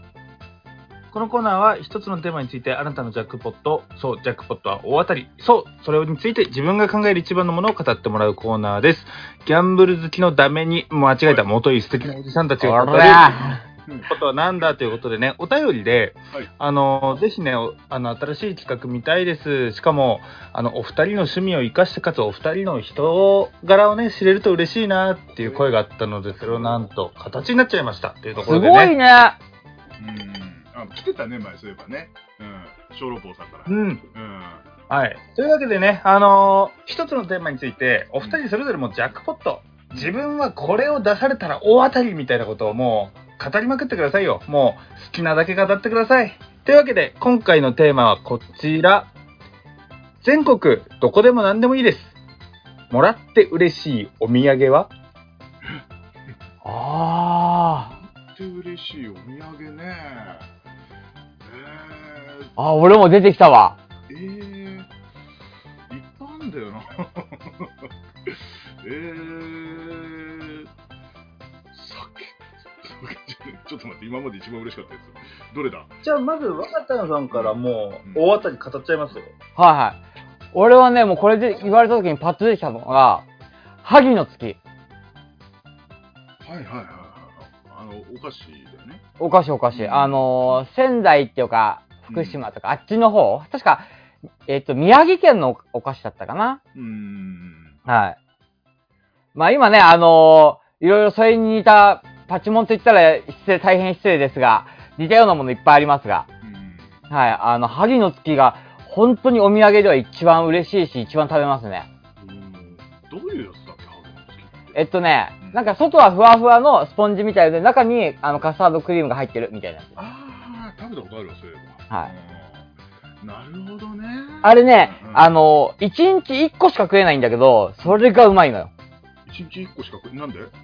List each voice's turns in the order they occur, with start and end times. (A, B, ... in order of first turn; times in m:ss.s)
0:01.1-0:13.5 A
0:12.6-0:13.6 B
0:14.0-0:28.9 A
0:25.3-0:25.7 C
0:26.3-0:26.9 C
0:28.4-0:29.4 B
0:30.0-0:34.6 C
0:33.7-0:34.0 A
0:34.9-0:49.1 A
0:50.2-0:52.2 A
0:52.9-0:54.9 A
0:56.6-0:57.9 B
0:57.8-1:00.5 C
1:01.4-1:02.5 C
1:02.6-1:03.8 B
1:04.1-1:04.9 C
1:05.9-1:10.7 C
1:11.7-1:16.0 C
1:16.0-1:19.3 A
1:17.3-1:18.3 C
1:19.6-1:20.0 B
1:20.5-1:23.2 B
1:23.8-1:24.6 B
1:26.4-1:29.0 C
1:29.2-1:33.8 B
1:29.7-1:30.7 C
1:32.1-1:32.4 C
1:34.5-1:36.6 B
1:36.7-1:37.8 C
1:37.8-1:38.2 B
1:39.3-1:46.3 B
1:46.4-1:47.0 C
1:47.1-1:51.9 B
1:52.2-1:54.8 C
1:54.7-1:59.9 B
2:00.0-2:02.7 C
2:03.2-2:05.3 C
2:04.4-2:08.7 B
2:09.3-2:10.5 C